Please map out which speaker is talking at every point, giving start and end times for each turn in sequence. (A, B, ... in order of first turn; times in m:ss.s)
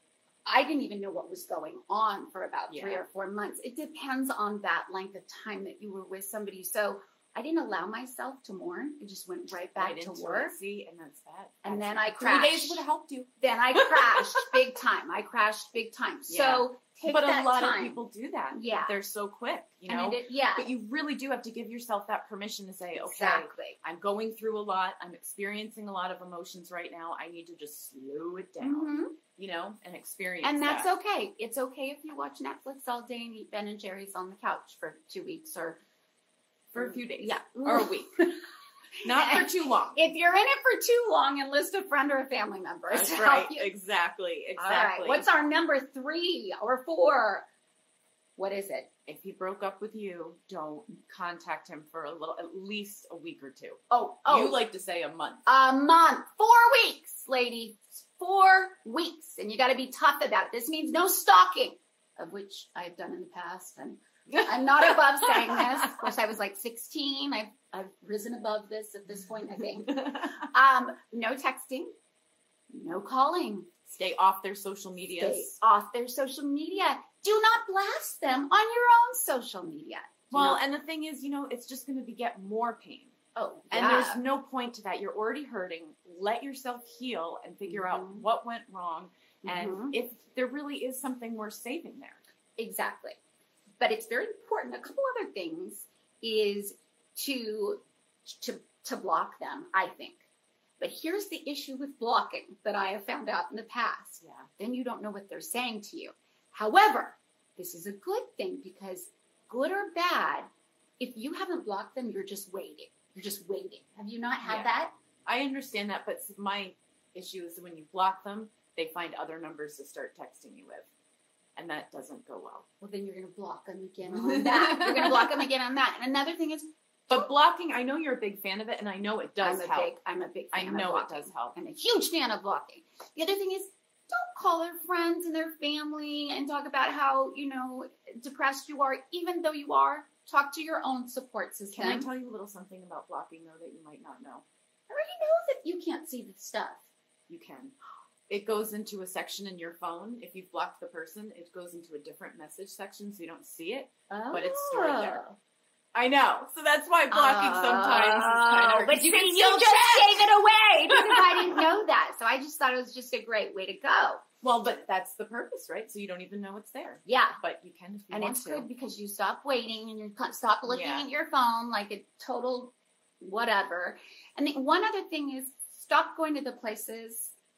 0:00.4-0:10.5 A
0:02.7-0:03.0 B
0:09.8-0:14.6 B
0:11.6-0:12.8 A
0:13.4-0:18.0 A
0:16.3-0:30.9 B
0:18.5-0:19.0 A
0:19.9-0:20.7 A
0:23.0-0:23.8 A
0:28.6-0:29.2 A
0:30.4-0:35.8 A
0:36.7-0:38.1 B
0:36.7-0:38.4 A
0:39.0-0:40.0 B
0:39.0-0:43.7 A
0:42.9-0:45.2 B
0:44.6-0:47.4 A
0:48.4-0:48.9 A
0:49.1-0:55.4 B
0:53.9-0:54.6 A
0:55.4-1:11.9 A
1:04.8-1:05.6 B
1:10.0-1:10.3 B
1:12.7-1:13.7 A
1:13.9-1:15.5 B
1:15.1-1:20.6 A
1:20.3-1:23.1 B
1:23.3-1:24.2 A
1:23.7-1:32.2 B
1:27.6-1:28.2 A
1:29.4-1:30.0 A
1:32.6-1:33.2 A
1:33.8-1:40.2 A
1:40.8-1:50.5 A
1:44.2-1:44.5 B
1:51.0-1:54.9 A
1:54.4-1:54.7 B
1:55.2-2:00.9 B
2:01.6-2:02.6 B
2:02.8-2:07.2 A
2:04.1-2:05.3 B
2:07.1-2:09.9 B
2:09.4-2:22.1 A
2:10.5-2:11.5 B
2:21.7-2:24.4 B
2:24.9-2:26.8 A
2:27.3-2:27.7 B
2:28.3-2:35.2 B
2:34.1-2:35.4 A
2:35.9-2:40.3 B
2:37.1-2:44.2 A
2:40.9-2:41.6 B
2:44.4-2:48.6 B
2:47.0-2:47.4 A
2:48.1-2:57.3 A
2:50.7-2:51.1 B